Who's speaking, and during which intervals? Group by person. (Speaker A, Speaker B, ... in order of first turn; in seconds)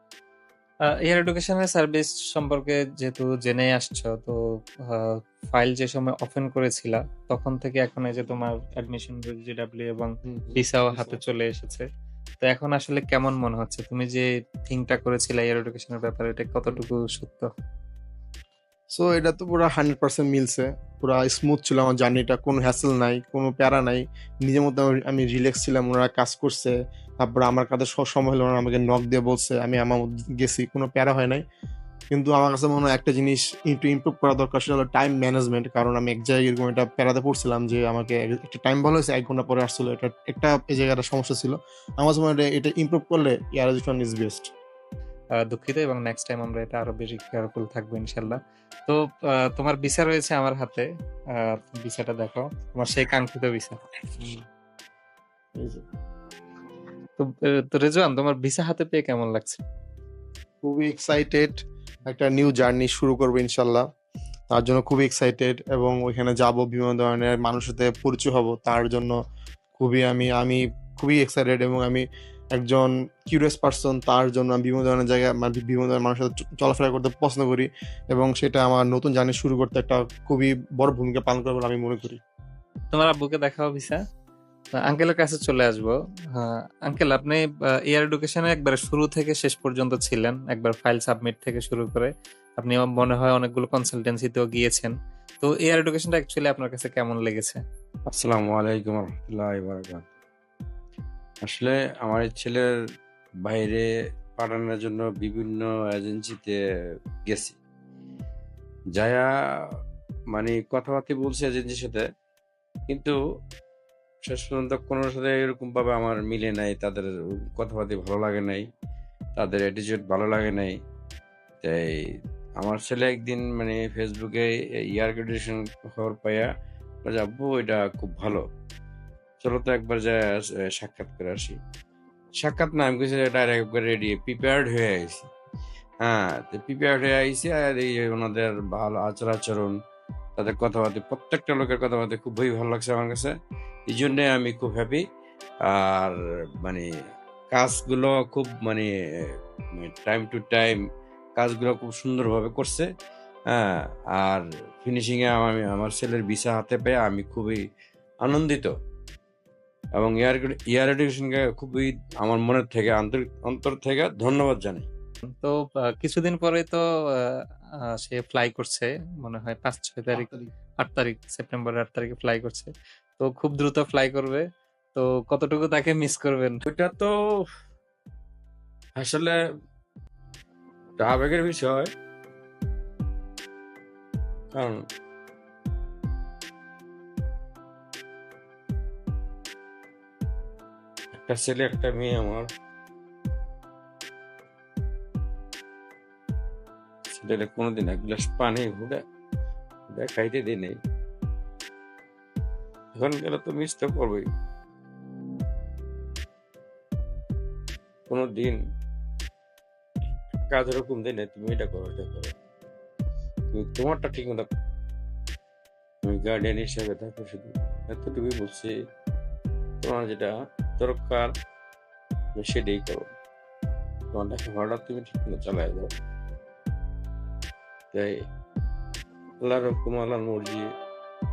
Speaker A: 1.0-4.3, 5.0-11.8, 12.4-17.5, 45.4-50.9, 51.5-53.8, 57.2-59.6, 82.9-84.0, 84.8-97.6, 165.4-167.2, 168.0-170.3, 170.8-176.6
Speaker B: 10.2-11.2, 18.9-31.4, 32.1-44.5, 55.6-55.8, 60.6-63.8, 64.5-69.1, 69.8-82.2, 170.1-170.5
Speaker C: 98.1-100.1, 101.4-102.7, 103.4-106.6, 107.2-107.5, 108.9-109.3, 110.3-112.0, 112.9-113.2, 114.2-118.6, 119.4-120.7, 122.6-126.5, 127.0-128.4, 129.4-131.6, 132.4-135.3, 136.0-139.7, 140.4-143.3, 143.9-145.0, 145.7-146.8, 147.5-150.8, 151.4-152.9, 153.5-157.6, 158.2-158.7, 160.0-164.9, 176.7-177.1, 179.0-179.3, 181.0-181.9, 184.5-184.8, 191.2-192.5, 197.1-199.0, 199.9-200.8, 202.9-204.3, 208.1-208.6, 210.5-212.3, 213.5-214.5, 216.1-218.7, 219.8-221.3, 222.3-223.1, 224.1-225.9, 229.4-230.7